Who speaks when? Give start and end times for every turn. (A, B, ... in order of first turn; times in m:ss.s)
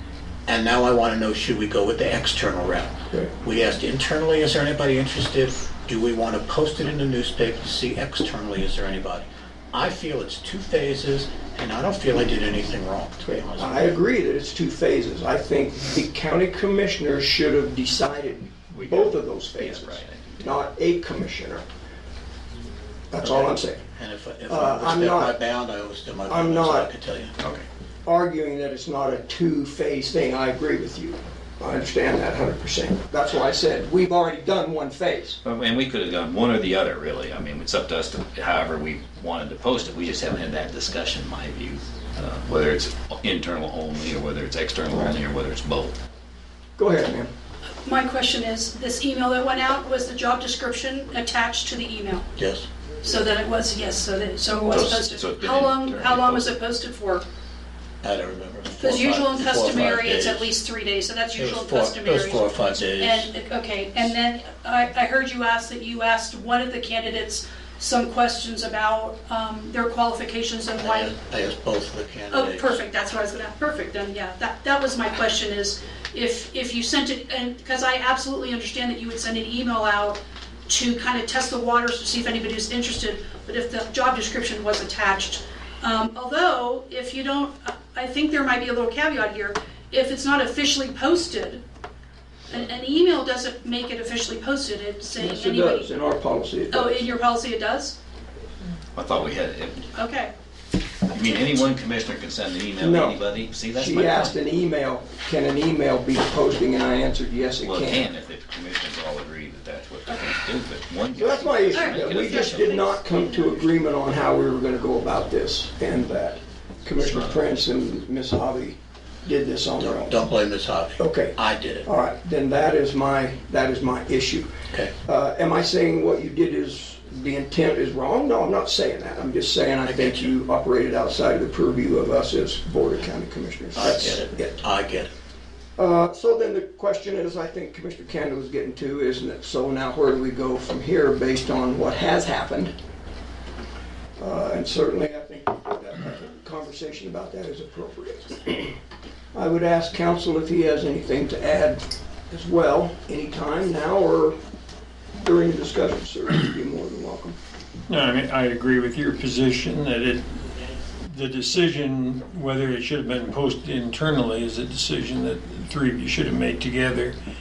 0:00.5-0:14.0 A
0:13.6-0:21.6 B
0:18.7-0:20.4 C
0:23.1-0:23.8 B
0:23.2-0:27.3 A
0:24.5-0:25.4 B
0:26.3-0:26.9 B
0:27.4-0:27.7 C
0:28.0-0:35.4 B
0:35.4-0:45.9 C
0:46.8-0:47.3 B
0:47.9-0:52.2 D
0:52.4-0:52.7 A
0:53.1-0:57.2 D
0:54.6-0:56.6 C
0:58.0-1:00.5 A
0:58.8-1:11.1 D
1:01.3-1:03.3 A
1:10.8-1:12.8 A
1:12.3-1:31.6 D
1:32.5-1:35.9 D
1:35.2-1:37.1 B
1:36.7-1:38.0 D
1:39.0-1:39.9 C
1:40.0-1:40.3 D
1:41.1-1:44.4 C
1:42.8-1:48.1 B
1:47.6-1:53.0 C
1:51.1-2:00.2 B
1:57.0-1:57.5 C
1:59.8-2:01.9 A
2:01.0-2:04.5 B
2:05.0-2:14.6 B
2:09.8-2:10.3 A
2:13.8-2:15.1 A
2:15.8-2:22.7 B
2:24.2-2:28.8 B
2:29.4-2:34.4 B
2:35.2-2:37.4 B
2:37.9-2:40.3 E
2:41.0-2:47.2 E